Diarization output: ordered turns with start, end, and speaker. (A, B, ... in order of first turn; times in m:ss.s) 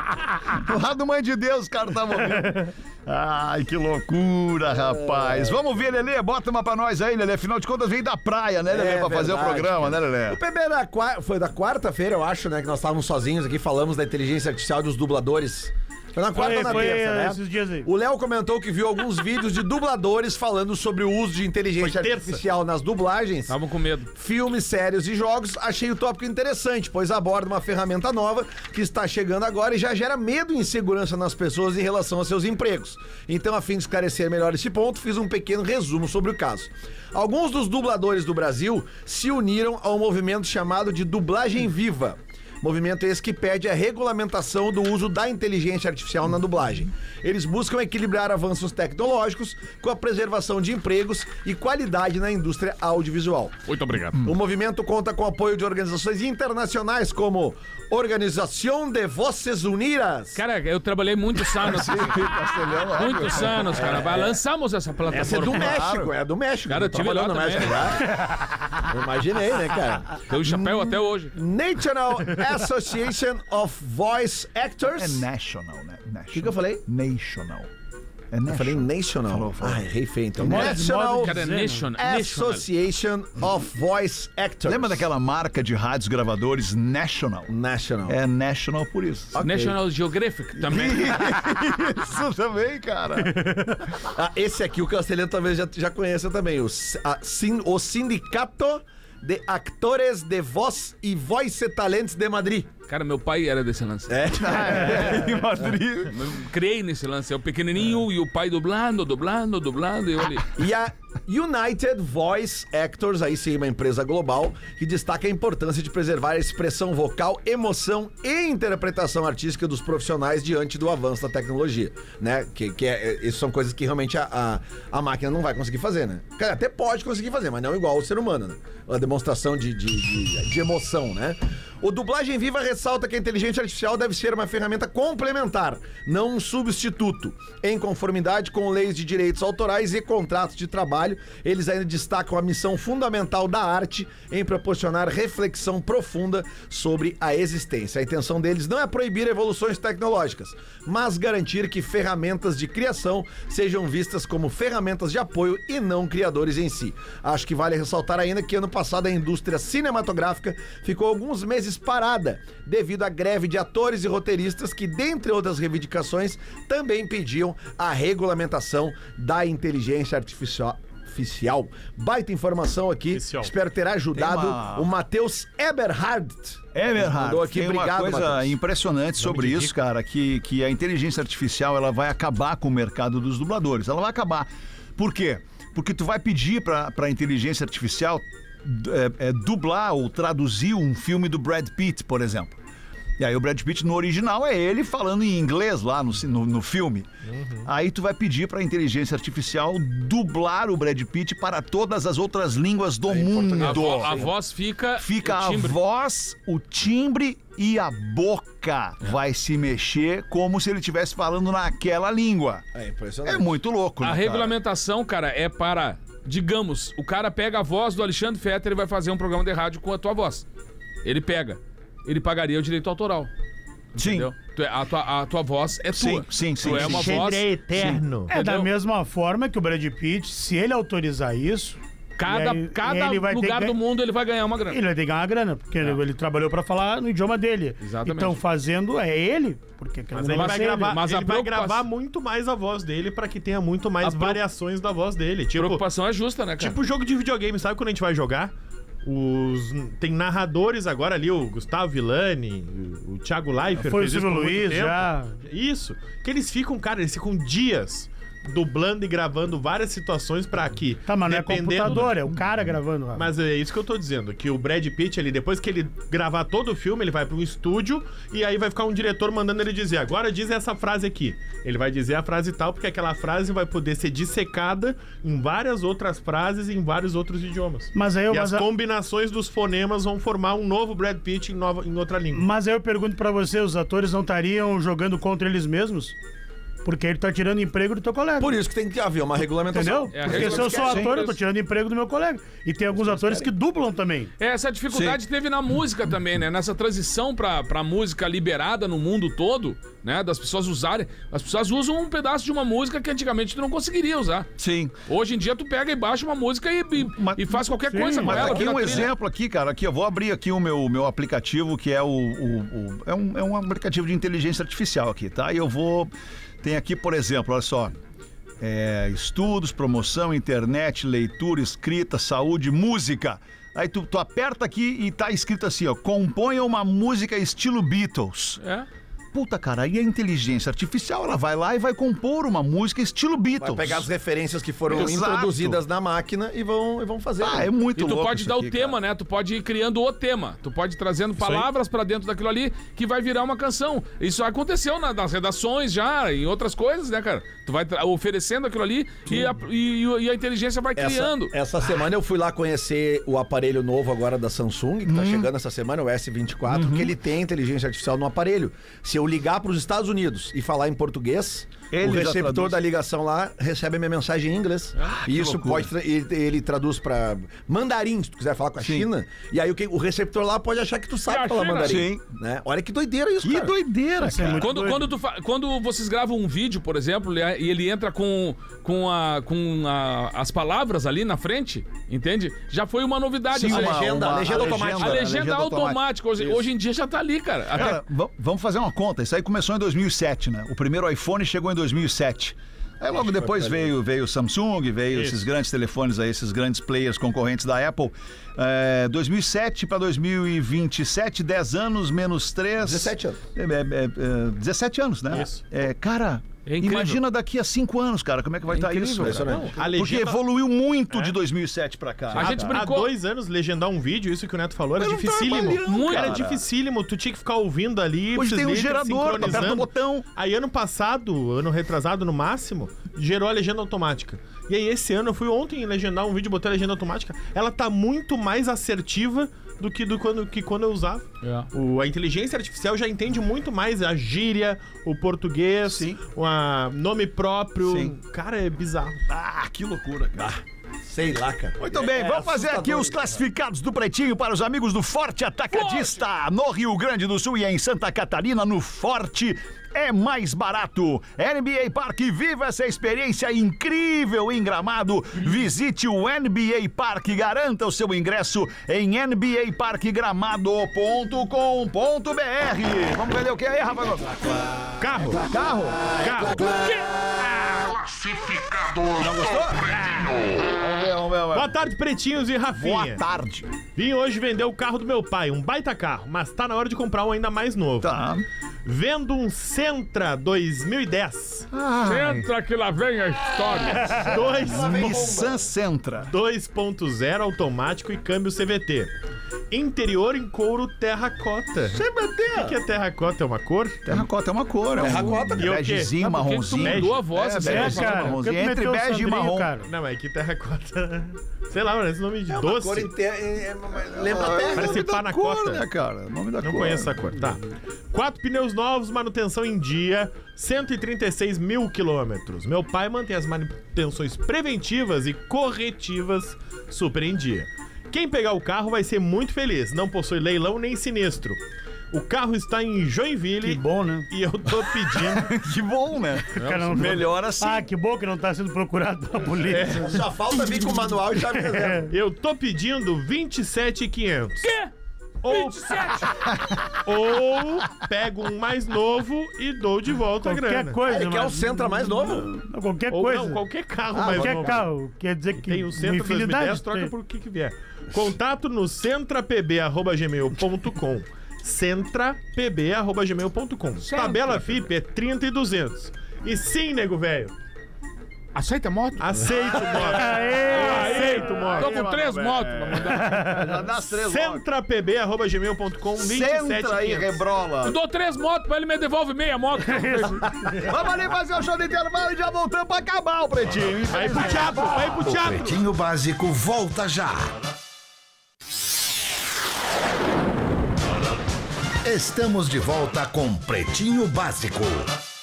0:00.5-0:10.4 A
0:05.0-0:05.6 B
0:08.7-0:23.6 B
0:16.3-0:17.9 C
0:16.4-0:16.9 D
0:21.8-0:22.4 E
0:23.5-0:24.1 D
0:24.2-0:53.6 B
0:53.7-0:54.2 D
0:54.2-1:00.4 B
1:00.4-1:02.4 D
1:01.5-1:04.1 A
1:02.9-1:05.8 D
1:03.7-1:04.4 B
1:05.1-1:15.2 B
1:05.3-1:06.1 A
1:06.7-1:08.0 D
1:10.2-1:11.4 D
1:14.8-1:17.7 A
1:16.3-1:16.8 B
1:18.3-1:19.9 A
1:18.5-1:21.3 B
1:20.4-1:21.9 C
1:20.4-1:20.7 A
1:21.1-1:22.7 D
1:22.0-1:25.0 B
1:24.7-1:27.5 A
1:27.5-1:28.2 B
1:28.1-1:29.4 A
1:29.3-1:29.8 B
1:29.4-1:31.2 D
1:30.6-1:33.4 A
1:34.0-1:42.7 B
1:42.9-1:44.2 D
1:44.1-1:45.4 B
1:44.4-1:46.2 A
1:46.1-1:50.5 D
1:50.6-2:58.5 B
2:53.1-2:53.5 E
2:54.1-2:54.9 A
2:56.7-3:12.6 A
2:59.3-2:59.7 E
3:13.2-3:17.1 A
3:17.3-3:17.7 E
3:17.6-3:24.3 A
3:23.1-3:24.3 B
3:23.6-3:25.8 D
3:25.0-3:32.6 A
3:32.8-3:33.6 B
3:33.2-3:34.5 A
3:34.0-3:40.4 D
3:41.0-3:43.3 D
3:43.9-3:47.5 D
3:44.0-3:44.3 A
3:45.9-3:48.0 A
3:46.6-3:48.3 E
3:48.3-3:53.8 C
3:48.3-3:48.7 D
3:52.2-3:54.8 D
3:54.7-4:01.0 C
3:57.8-3:58.4 D
4:00.1-4:05.8 E
4:00.3-4:01.8 D
4:04.0-4:04.4 D
4:05.6-4:06.8 D
4:06.6-4:08.5 E
4:09.0-4:22.2 E
4:13.8-4:15.4 C
4:21.1-4:23.3 C
4:22.3-4:22.6 A
4:23.1-4:42.5 E
4:37.9-4:38.7 C
4:42.3-4:46.2 C
4:46.8-4:48.6 C
4:48.4-4:51.2 B
4:49.7-4:54.3 C
4:50.1-4:51.4 D
4:52.9-4:53.5 B
4:54.4-5:04.5 D
4:54.9-4:55.2 A
5:04.6-5:04.9 A
5:05.1-5:09.1 D
5:07.0-5:16.1 A
5:07.9-5:08.9 C
5:16.6-5:18.0 A
5:18.6-5:28.6 A
5:28.6-5:28.9 D
5:29.3-5:34.1 A
5:33.6-5:37.7 B
5:34.9-5:35.8 A
5:37.4-5:39.0 A
5:38.0-5:51.5 D
5:41.4-5:41.7 A
5:51.0-6:13.7 B
5:55.0-5:55.5 A
5:56.7-5:57.1 A
6:01.9-6:02.8 A
6:05.0-6:05.9 A
6:08.8-6:09.1 A
6:11.3-6:12.0 D
6:11.8-6:12.2 A
6:13.4-6:14.7 A
6:14.2-6:15.1 C
6:14.5-6:28.0 D
6:23.5-6:26.0 A
6:23.6-6:25.4 B
6:27.7-6:52.8 A
6:35.1-6:35.4 E
6:42.8-6:43.4 B
6:45.3-6:45.6 E
6:46.7-6:47.2 D
6:48.7-6:49.6 D
6:49.2-6:49.8 B
6:49.8-6:50.4 E
6:51.1-6:51.4 E
6:52.4-6:53.1 D
6:52.4-6:52.7 B
6:52.7-7:19.3 E
6:55.0-6:56.6 A
6:55.8-6:56.4 D
6:58.4-7:00.3 A
7:11.4-7:11.7 D
7:15.9-7:16.2 A
7:17.8-7:18.1 A
7:19.3-7:20.6 A
7:20.4-7:23.4 B
7:21.8-7:46.7 A
7:25.7-7:26.2 D
7:45.0-7:45.4 E
7:46.2-7:46.6 E
7:46.8-7:47.0 D
7:47.6-7:48.0 D
7:48.3-7:51.7 A
7:51.5-7:53.2 E
7:52.8-7:53.7 A
7:54.0-7:58.2 E
7:58.0-7:58.4 A
7:58.8-8:01.7 E
8:01.7-8:02.5 A
8:02.0-8:04.2 D
8:04.0-8:04.3 C
8:04.2-8:05.6 B
8:04.2-8:05.2 E
8:04.6-8:06.3 A
8:06.2-8:09.1 E
8:09.7-8:14.1 E
8:11.9-8:12.7 B
8:14.0-8:19.7 A
8:15.0-8:15.7 B
8:15.3-8:17.2 E
8:16.8-8:18.4 D
8:17.6-8:19.9 C
8:19.9-8:23.1 E
8:22.5-8:25.0 B
8:24.1-8:27.3 A
8:24.8-8:25.8 E
8:26.6-8:27.6 E
8:28.1-8:45.5 E
8:43.6-8:44.3 C
8:45.1-8:47.9 A
8:46.6-8:50.2 C
8:46.6-8:47.1 D
8:49.7-8:50.2 E
8:50.0-8:52.1 B
8:51.4-8:52.1 C
8:52.1-8:54.7 E
8:54.6-8:54.9 D
8:55.4-8:56.3 E
8:55.5-8:56.3 D
8:56.5-8:56.9 A
8:57.0-9:01.0 E
9:00.4-9:03.6 C
9:01.1-9:02.5 B
9:03.1-9:04.9 E
9:04.1-9:04.9 B
9:04.2-9:07.1 C
9:05.6-9:17.5 E
9:14.0-9:14.8 D
9:18.6-9:19.3 D
9:19.2-9:22.0 E
9:19.5-9:20.4 A
9:20.0-9:21.7 C
9:20.7-9:23.4 D
9:21.1-9:24.7 A
9:23.2-9:23.8 C
9:24.1-9:27.4 E
9:26.2-9:28.0 A
9:27.8-9:30.5 D
9:29.9-9:30.4 C
9:30.7-9:35.6 A
9:34.1-9:35.8 E
9:35.8-9:37.5 F
9:42.0-9:45.1 F